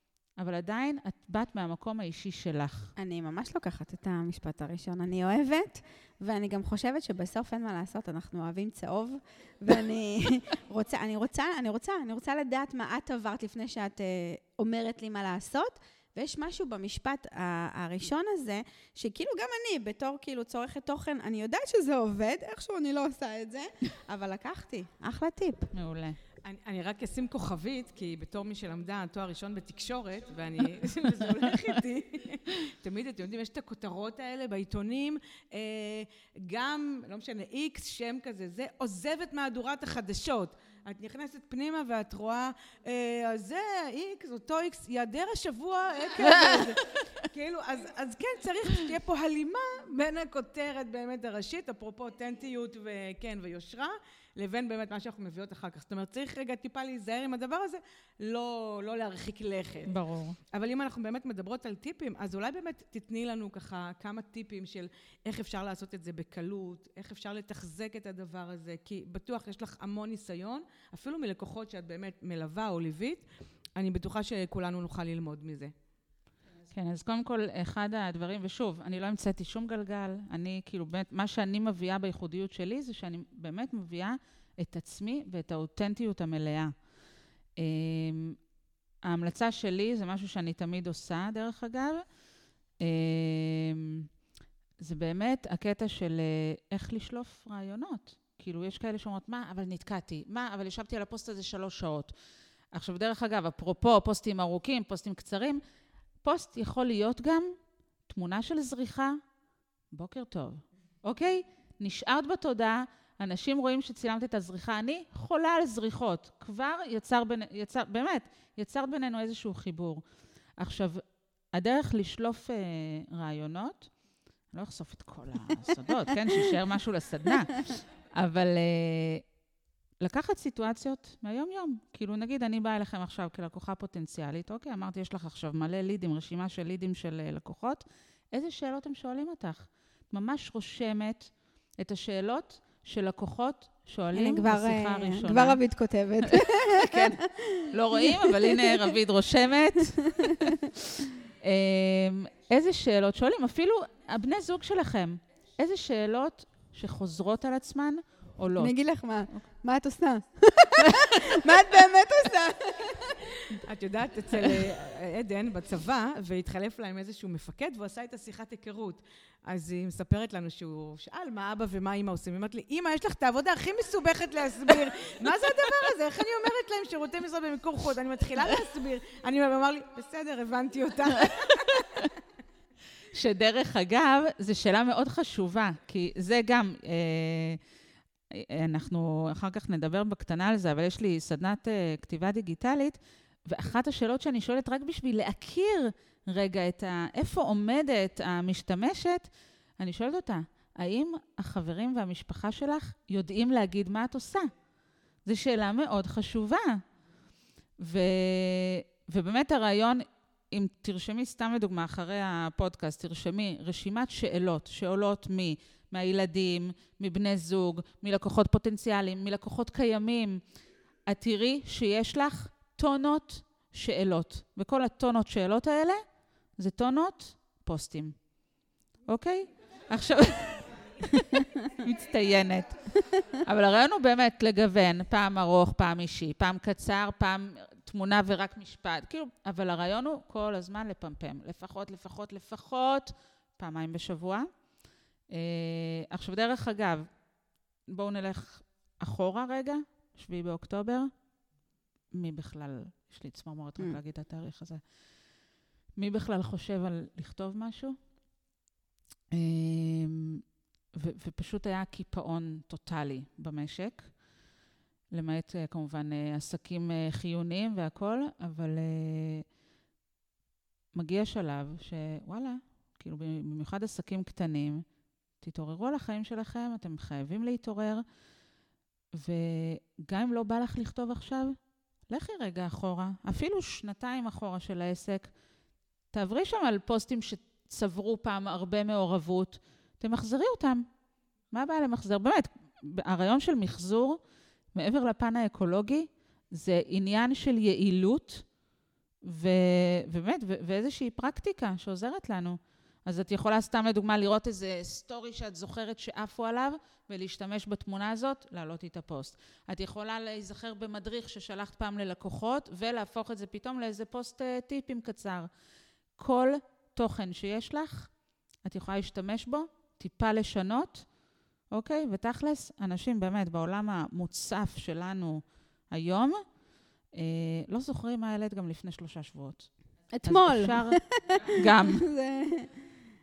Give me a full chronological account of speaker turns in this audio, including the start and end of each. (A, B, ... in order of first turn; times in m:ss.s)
0:00.4-0:02.9 A
0:03.0-0:25.7 B
0:25.7-0:26.2 A
0:26.4-1:00.0 C
0:46.2-0:46.8 A
0:59.9-1:00.4 A
1:00.5-1:13.2 C
1:13.8-1:15.7 C
1:16.7-1:26.7 A
1:27.6-1:28.4 A
1:29.0-1:32.0 A
1:32.8-1:34.1 A
1:34.8-1:42.1 A
1:42.7-1:45.6 A
1:46.2-1:47.6 A
1:48.1-1:49.2 A
1:49.9-2:00.0 A
2:00.6-2:03.9 A
2:04.5-2:09.2 A
2:10.0-2:25.6 A
2:24.1-2:28.9 B
2:26.2-2:27.2 A
2:27.7-2:38.7 A
2:29.9-2:30.7 B
2:38.6-2:43.3 B
2:40.9-2:41.1 A
2:43.5-3:02.1 C
3:01.2-3:02.1 A
3:03.1-3:07.6 A
3:08.3-3:24.5 A
3:25.2-3:26.8 A
3:27.8-3:40.4 A
3:41.1-3:46.0 A
3:46.6-3:48.2 A
3:49.1-4:04.5 A
4:05.3-4:07.1 A
4:07.9-4:11.1 A
4:12.1-4:14.8 A
4:16.0-4:18.0 A
4:19.3-4:24.1 A
4:25.1-4:29.4 A
4:30.9-4:34.8 A
4:35.4-4:38.0 A
4:39.1-4:41.6 A
4:42.1-4:45.3 A
4:46.1-4:50.9 A
4:51.5-4:54.2 A
4:54.8-4:58.5 A
4:59.2-5:15.5 A
5:16.2-5:18.1 A
5:18.6-5:21.1 A
5:21.7-5:26.4 A
5:27.1-5:29.7 A
5:30.1-5:32.7 B
5:30.2-5:31.0 A
5:31.5-5:32.1 A